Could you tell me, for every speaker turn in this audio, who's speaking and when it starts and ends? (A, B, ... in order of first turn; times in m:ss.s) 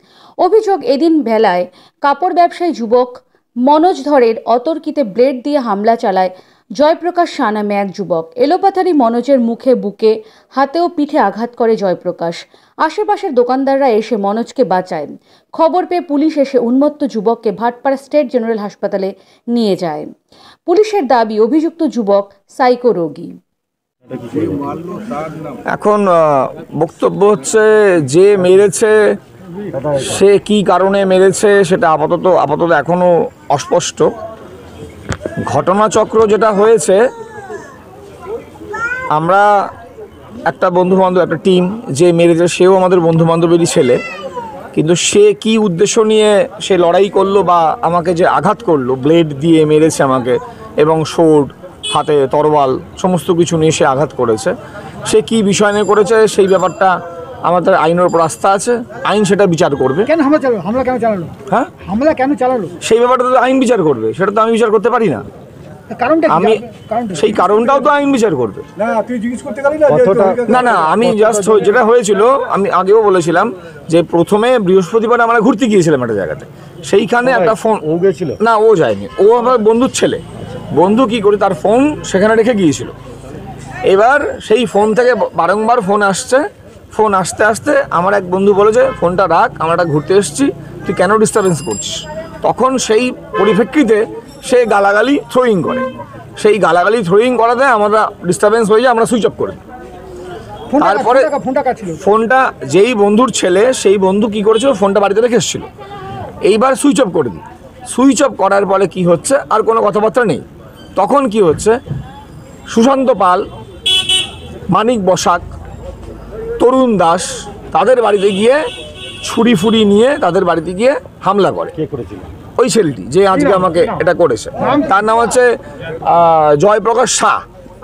0:00.4-0:20.1 A
0:20.7-0:23.4 A
0:24.1-0:24.9 B
0:25.7-0:29.2 C
0:29.7-0:30.2 B
0:30.0-0:34.1 C
0:35.4-0:37.0 C
0:39.2-0:39.5 C
0:40.5-0:44.0 C
0:44.7-0:54.5 C
0:55.1-0:57.0 C
0:57.5-1:00.1 C
1:00.1-1:02.7 D
1:02.8-1:05.3 C
1:05.9-1:07.6 D
1:06.3-1:08.6 C
1:09.8-1:11.6 B
1:10.4-1:17.8 C
1:17.2-1:18.4 B
1:18.4-1:20.2 C
1:20.7-1:22.9 C
1:23.9-1:39.6 C
1:40.7-1:42.0 D
1:40.8-1:41.3 C
1:42.0-1:45.7 C
1:46.4-1:50.4 C
1:51.0-1:51.8 C
1:52.7-1:53.4 C
1:54.7-1:55.4 C
1:56.6-1:58.6 C
1:59.2-2:01.7 C
2:01.8-2:02.3 B
2:02.6-2:05.5 C
2:03.3-2:04.0 D
2:04.6-2:04.9 D
2:06.1-2:07.4 C